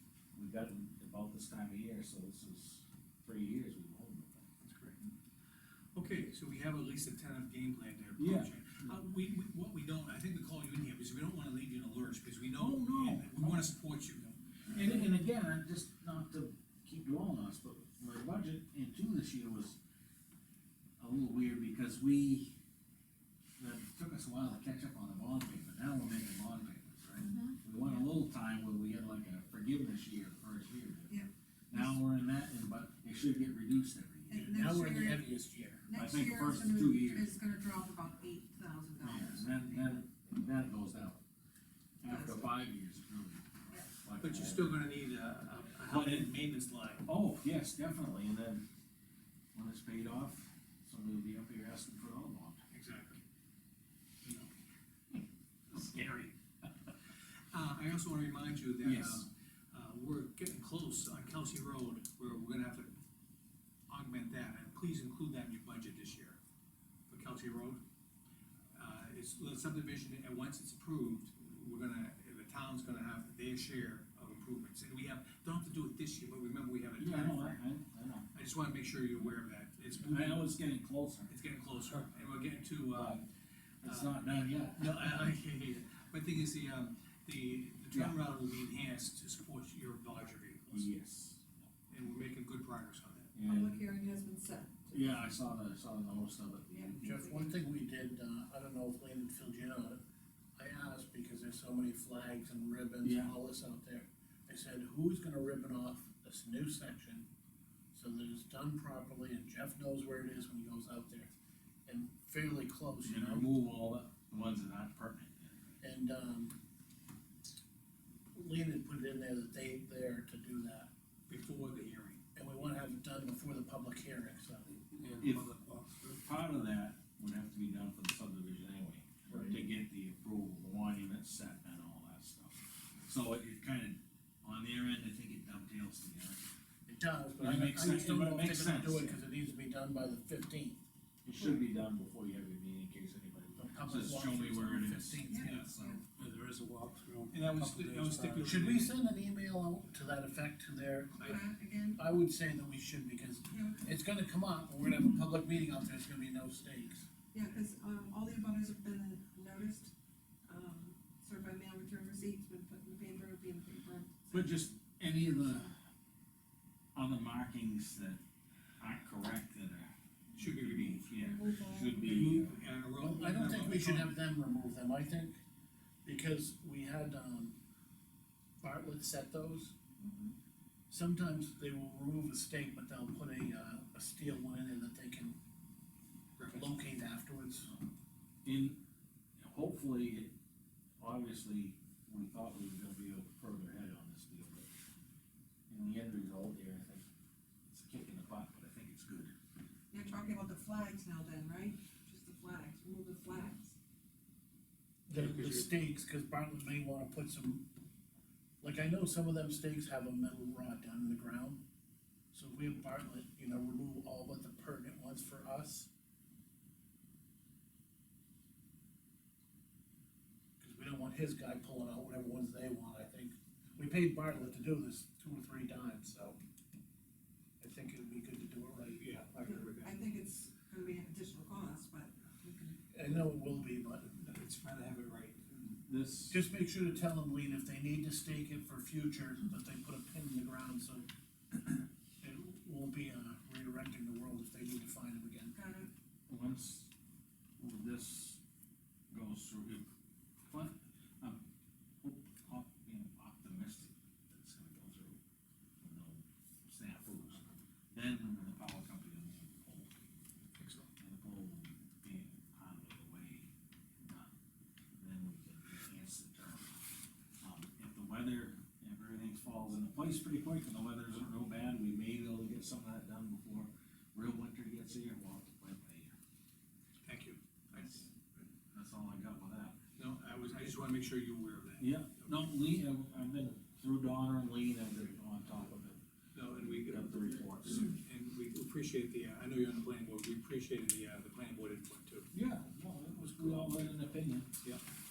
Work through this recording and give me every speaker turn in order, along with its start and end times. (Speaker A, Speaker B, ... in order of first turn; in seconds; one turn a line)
Speaker A: 0.3-4.5
Speaker B: 4.6-5.1
Speaker B: 5.9-15.0
Speaker A: 8.2-9.0
Speaker A: 12.6-13.7
Speaker A: 14.7-19.8
Speaker A: 21.0-22.5
Speaker A: 23.6-31.1
Speaker C: 27.2-28.1
Speaker C: 31.1-31.9
Speaker A: 31.7-34.7
Speaker C: 34.3-35.3
Speaker D: 34.3-35.9
Speaker C: 35.9-39.9
Speaker A: 35.9-37.3
Speaker A: 39.0-41.2
Speaker A: 42.0-44.9
Speaker C: 42.0-42.5
Speaker B: 44.2-47.1
Speaker A: 45.8-46.4
Speaker A: 47.0-48.6
Speaker A: 49.5-52.6
Speaker B: 52.7-53.2
Speaker A: 55.7-56.4
Speaker B: 57.5-62.9
Speaker A: 58.8-59.2
Speaker B: 63.9-66.4
Speaker B: 67.1-67.8
Speaker B: 68.7-77.6
Speaker A: 77.0-78.2
Speaker B: 78.3-80.5
Speaker A: 80.0-81.3
Speaker B: 81.3-83.2
Speaker A: 82.9-83.2
Speaker A: 83.8-85.3
Speaker B: 83.8-84.2
Speaker B: 84.7-90.9
Speaker A: 87.9-88.2
Speaker A: 90.7-91.5
Speaker B: 91.9-93.3
Speaker A: 93.3-93.8
Speaker C: 93.4-95.2
Speaker A: 94.9-97.1
Speaker C: 96.7-97.6
Speaker D: 97.0-100.0
Speaker D: 100.6-107.2
Speaker A: 103.0-103.3
Speaker D: 107.9-111.3
Speaker D: 111.8-113.5
Speaker A: 113.0-115.7
Speaker D: 115.8-116.5
Speaker D: 118.3-120.9
Speaker B: 121.3-122.2
Speaker D: 122.3-124.7
Speaker E: 124.8-126.2
Speaker A: 125.2-125.5
Speaker A: 126.1-136.4
Speaker D: 136.8-140.8
Speaker A: 137.4-139.2
Speaker A: 141.2-145.2
Speaker D: 143.6-146.0
Speaker C: 145.3-146.0
Speaker B: 145.4-145.7
Speaker E: 146.1-148.5
Speaker B: 147.3-148.9
Speaker D: 148.3-151.3
Speaker C: 151.2-152.0
Speaker D: 151.9-157.1
Speaker C: 153.5-153.8
Speaker C: 157.3-159.9
Speaker C: 160.5-164.6
Speaker A: 164.3-165.8
Speaker A: 166.9-168.2
Speaker A: 168.8-172.6
Speaker B: 170.4-171.1
Speaker C: 171.1-172.4
Speaker B: 172.0-174.2
Speaker D: 172.9-175.4
Speaker D: 176.0-177.5
Speaker D: 178.6-179.7
Speaker C: 180.0-180.3
Speaker D: 180.9-185.3
Speaker B: 186.4-186.7
Speaker D: 186.5-187.7
Speaker A: 188.4-188.8
Speaker A: 189.4-190.3
Speaker A: 191.0-194.7
Speaker A: 195.7-197.1
Speaker A: 197.7-199.3
Speaker C: 199.9-203.7
Speaker D: 205.1-207.6
Speaker E: 205.1-205.6
Speaker D: 208.6-211.6
Speaker D: 212.3-215.9
Speaker D: 220.6-226.4
Speaker D: 227.6-229.0
Speaker B: 228.9-230.2
Speaker C: 229.4-232.8
Speaker D: 232.9-234.1
Speaker B: 234.1-235.8
Speaker A: 235.8-236.4
Speaker D: 236.3-245.6
Speaker C: 245.5-245.9
Speaker A: 246.3-246.9
Speaker A: 247.6-248.4
Speaker A: 249.1-249.8
Speaker A: 250.5-251.4
Speaker A: 252.0-255.2
Speaker A: 255.8-259.9
Speaker B: 260.6-260.9
Speaker A: 261.0-263.5
Speaker A: 264.0-264.3
Speaker A: 265.0-266.8
Speaker A: 267.4-276.1
Speaker B: 277.0-278.5
Speaker A: 278.7-279.8
Speaker B: 280.0-282.5
Speaker A: 281.8-286.0
Speaker B: 286.3-292.3
Speaker A: 286.5-288.0
Speaker A: 292.3-294.5
Speaker B: 293.4-294.0